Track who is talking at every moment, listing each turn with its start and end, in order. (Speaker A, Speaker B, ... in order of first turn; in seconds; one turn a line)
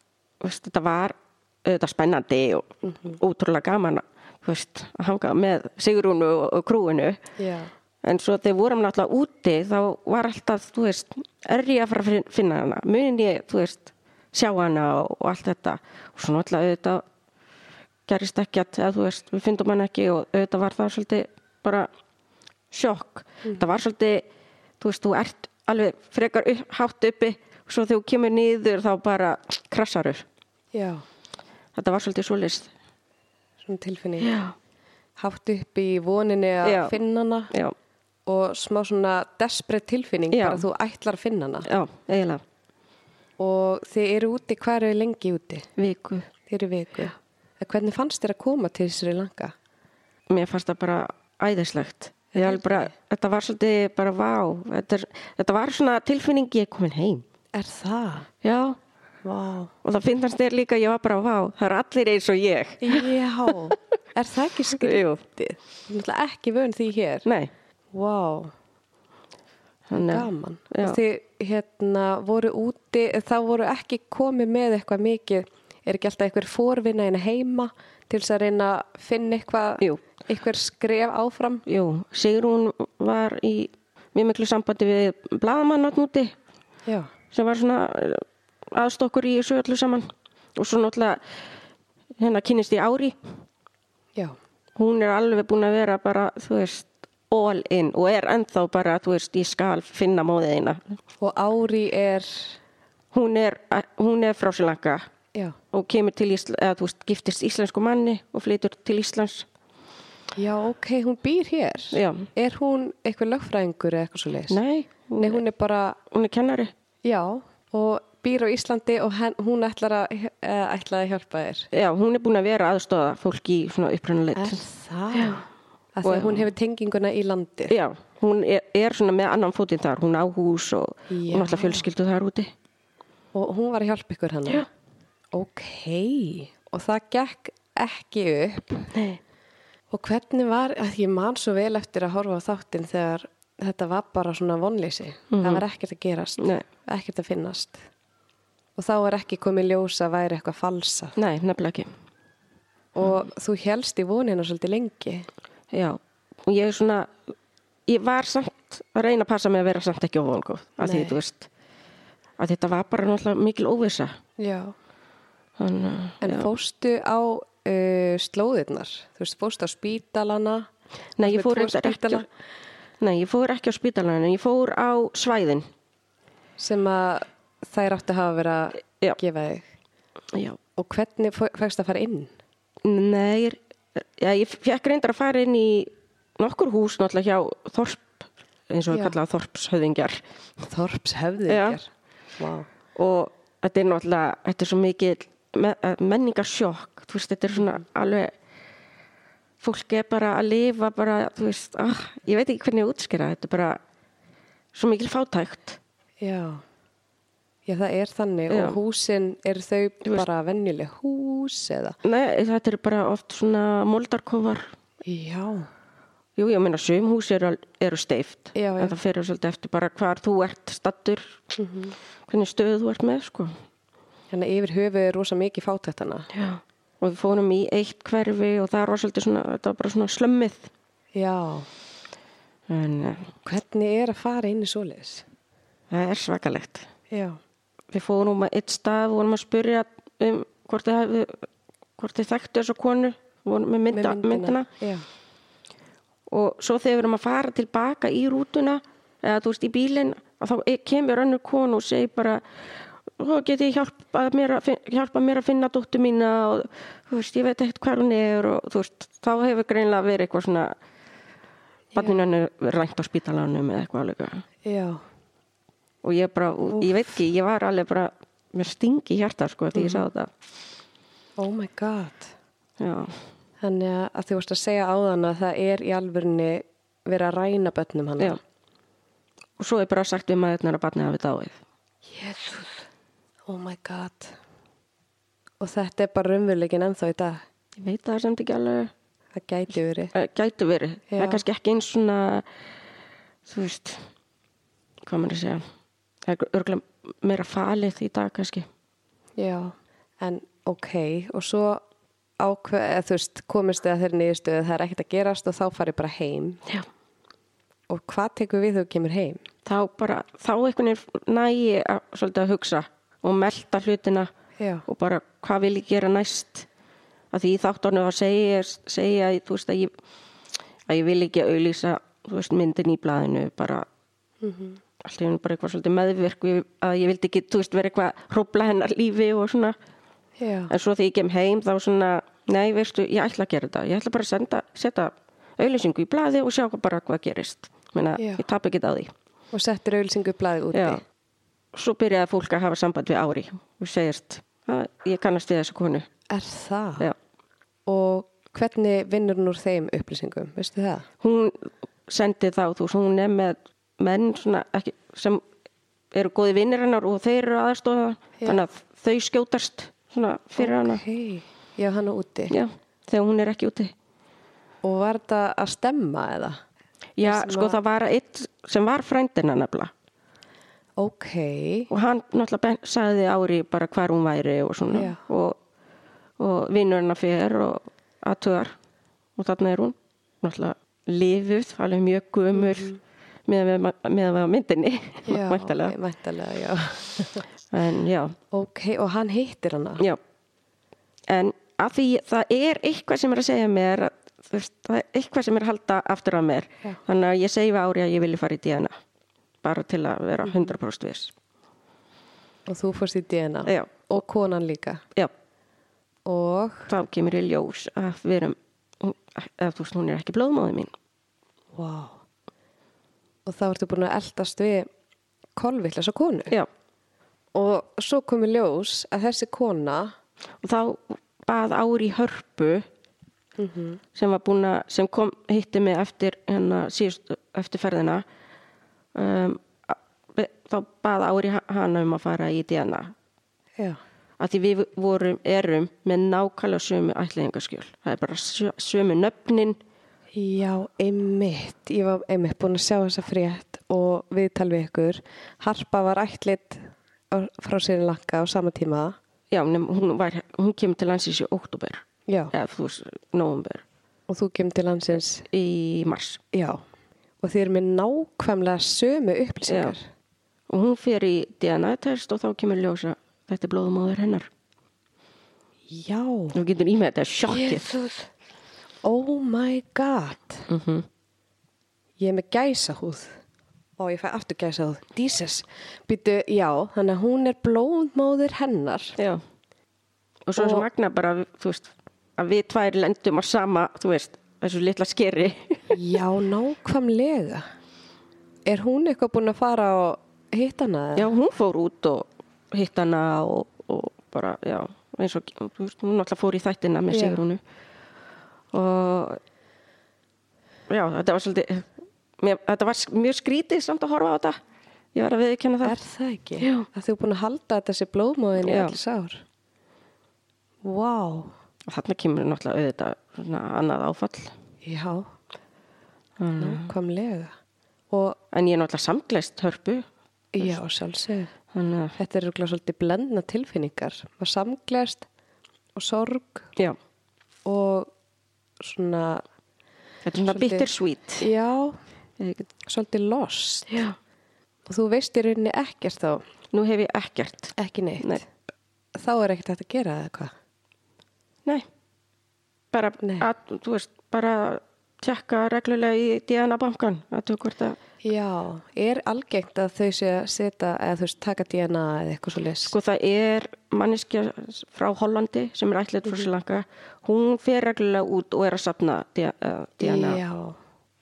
Speaker A: 0.4-7.2
Speaker B: 2.8-3.2
Speaker B: 7.4-7.7
Speaker A: 8.0-17.0
Speaker A: 18.1-21.9
Speaker A: 22.7-24.2
Speaker A: 24.8-30.2
Speaker B: 30.7-31.0
Speaker A: 31.7-32.7
Speaker B: 33.6-34.4
Speaker A: 34.2-34.5
Speaker B: 35.2-37.5
Speaker A: 36.6-37.0
Speaker B: 38.2-41.7
Speaker A: 40.3-40.6
Speaker A: 41.6-42.4
Speaker B: 43.4-45.7
Speaker A: 45.8-46.3
Speaker B: 46.5-49.5
Speaker A: 50.3-57.2
Speaker B: 52.3-52.9
Speaker B: 57.5-58.3
Speaker A: 58.4-58.8
Speaker B: 59.2-59.7
Speaker A: 59.8-63.5
Speaker B: 62.8-67.2
Speaker A: 64.8-65.1
Speaker A: 67.2-67.5
Speaker B: 67.9-68.5
Speaker A: 69.9-71.0
Speaker B: 69.9-81.6
Speaker A: 81.7-86.3
Speaker A: 87.3-91.2
Speaker A: 92.2-93.2
Speaker A: 94.8-100.9
Speaker B: 101.2-102.6
Speaker A: 103.1-105.0
Speaker A: 105.7-109.5
Speaker B: 110.3-114.6
Speaker A: 111.9-112.3
Speaker A: 114.5-115.4
Speaker B: 115.2-116.0
Speaker A: 116.1-116.7
Speaker B: 117.0-121.7
Speaker A: 121.7-125.4
Speaker B: 124.3-127.7
Speaker A: 126.0-126.5
Speaker A: 127.7-132.5
Speaker B: 131.1-131.8
Speaker B: 133.3-134.7
Speaker B: 135.3-138.9
Speaker A: 138.9-139.2
Speaker B: 139.9-147.8
Speaker A: 145.3-145.6
Speaker A: 146.4-146.6
Speaker B: 148.8-151.2
Speaker A: 151.2-151.9
Speaker B: 152.9-155.3
Speaker A: 155.7-157.1
Speaker A: 157.9-161.5
Speaker B: 160.8-161.2
Speaker A: 162.4-164.2
Speaker B: 164.4-164.7
Speaker A: 165.6-166.5
Speaker B: 166.2-170.7
Speaker A: 171.2-172.2
Speaker B: 171.2-172.3
Speaker A: 173.0-175.7
Speaker B: 176.6-179.7
Speaker A: 180.3-180.6
Speaker B: 180.8-182.3
Speaker A: 182.8-190.2
Speaker B: 190.7-192.7
Speaker A: 191.5-191.8
Speaker A: 192.9-198.3
Speaker A: 199.6-203.8
Speaker A: 204.7-205.8
Speaker B: 206.2-206.6
Speaker B: 207.7-212.0
Speaker A: 208.5-208.8
Speaker A: 212.0-214.7
Speaker B: 215.0-215.7
Speaker A: 216.3-221.4
Speaker B: 218.5-218.9
Speaker B: 221.6-221.9
Speaker A: 222.3-223.5
Speaker B: 224.3-226.3
Speaker A: 226.3-230.7
Speaker B: 231.1-231.7
Speaker A: 232.7-233.3
Speaker B: 233.4-235.2
Speaker A: 235.9-236.9
Speaker B: 237.1-237.4
Speaker A: 237.9-241.4
Speaker A: 242.0-244.7
Speaker B: 243.9-245.1
Speaker A: 246.3-260.8
Speaker B: 261.9-262.2
Speaker A: 261.9-264.4
Speaker B: 264.6-265.0
Speaker A: 266.0-270.3
Speaker B: 266.7-267.1
Speaker B: 269.7-270.1
Speaker B: 271.4-272.3
Speaker A: 272.8-273.1
Speaker B: 273.6-278.4
Speaker A: 279.6-281.6
Speaker B: 282.1-282.8
Speaker B: 283.5-284.4
Speaker B: 285.6-287.4
Speaker A: 287.8-288.9
Speaker B: 289.3-290.1
Speaker A: 290.1-292.4
Speaker B: 291.1-291.4
Speaker A: 293.4-294.1
Speaker A: 295.0-295.6
Speaker A: 296.2-298.7
Speaker B: 299.4-301.8
Speaker B: 302.4-306.6
Speaker B: 307.9-309.4
Speaker A: 309.6-314.3
Speaker B: 314.6-314.9
Speaker A: 314.9-316.7
Speaker A: 317.3-319.9
Speaker A: 320.9-323.9
Speaker B: 324.4-324.8
Speaker A: 325.0-329.8
Speaker B: 330.4-330.7
Speaker A: 330.7-339.1
Speaker B: 338.2-338.4
Speaker B: 339.5-341.0
Speaker A: 340.7-341.0
Speaker A: 341.7-346.1
Speaker B: 346.3-347.1
Speaker B: 347.9-351.1
Speaker A: 351.2-355.4
Speaker A: 356.1-361.0
Speaker B: 360.6-362.6
Speaker A: 362.5-363.9
Speaker B: 364.8-366.6
Speaker A: 367.2-369.9
Speaker B: 367.2-367.8
Speaker B: 371.0-371.9
Speaker A: 371.9-375.6
Speaker B: 374.9-375.2
Speaker A: 376.4-378.8
Speaker A: 379.4-382.9
Speaker B: 382.6-383.0
Speaker A: 383.5-385.9
Speaker B: 385.2-387.4
Speaker A: 387.7-388.4
Speaker B: 388.5-390.0
Speaker A: 391.3-398.9
Speaker A: 399.6-401.3
Speaker B: 400.4-400.7
Speaker B: 402.7-405.0
Speaker A: 403.6-403.9
Speaker B: 406.2-406.9
Speaker A: 406.9-410.9
Speaker B: 411.7-412.2
Speaker B: 413.4-414.9
Speaker B: 415.6-416.6
Speaker B: 417.5-420.1
Speaker A: 420.6-422.9
Speaker B: 423.6-424.0
Speaker A: 424.1-428.2
Speaker A: 429.1-433.1
Speaker A: 434.4-439.8
Speaker B: 440.3-449.1
Speaker A: 449.5-453.8
Speaker B: 452.3-452.5
Speaker B: 454.3-455.4
Speaker A: 455.5-456.4
Speaker B: 456.5-456.8
Speaker B: 457.4-460.1
Speaker A: 459.7-459.9
Speaker A: 460.7-464.5
Speaker B: 465.9-466.6
Speaker A: 466.5-467.9
Speaker B: 467.5-468.3
Speaker B: 469.0-470.7
Speaker A: 470.7-471.1
Speaker B: 472.2-473.4
Speaker B: 474.0-479.2
Speaker A: 479.2-479.4
Speaker A: 480.5-486.0
Speaker B: 480.6-480.9
Speaker B: 485.9-487.6
Speaker B: 488.6-491.3
Speaker A: 491.1-497.6
Speaker B: 497.1-497.4
Speaker A: 498.7-499.4
Speaker A: 500.9-504.6
Speaker A: 505.1-505.9
Speaker B: 505.8-509.4
Speaker A: 506.6-506.9
Speaker A: 508.6-508.9
Speaker B: 510.8-511.5
Speaker A: 511.9-514.5
Speaker B: 514.8-515.3
Speaker A: 516.4-516.9
Speaker B: 516.6-517.5
Speaker B: 518.1-518.4
Speaker A: 518.5-520.1
Speaker B: 520.5-521.5
Speaker A: 521.7-522.1
Speaker B: 522.2-525.2
Speaker B: 526.0-526.7
Speaker B: 527.6-528.1
Speaker B: 528.8-529.4
Speaker A: 530.2-531.5
Speaker B: 530.5-530.9
Speaker B: 531.4-532.0
Speaker A: 532.4-532.6
Speaker B: 532.9-534.0
Speaker A: 533.9-534.1
Speaker B: 534.9-536.4
Speaker A: 536.7-538.4
Speaker B: 537.8-538.5
Speaker B: 539.1-540.5
Speaker A: 542.9-548.0
Speaker B: 543.2-543.5
Speaker B: 548.2-552.9
Speaker A: 552.9-560.4
Speaker B: 560.0-560.8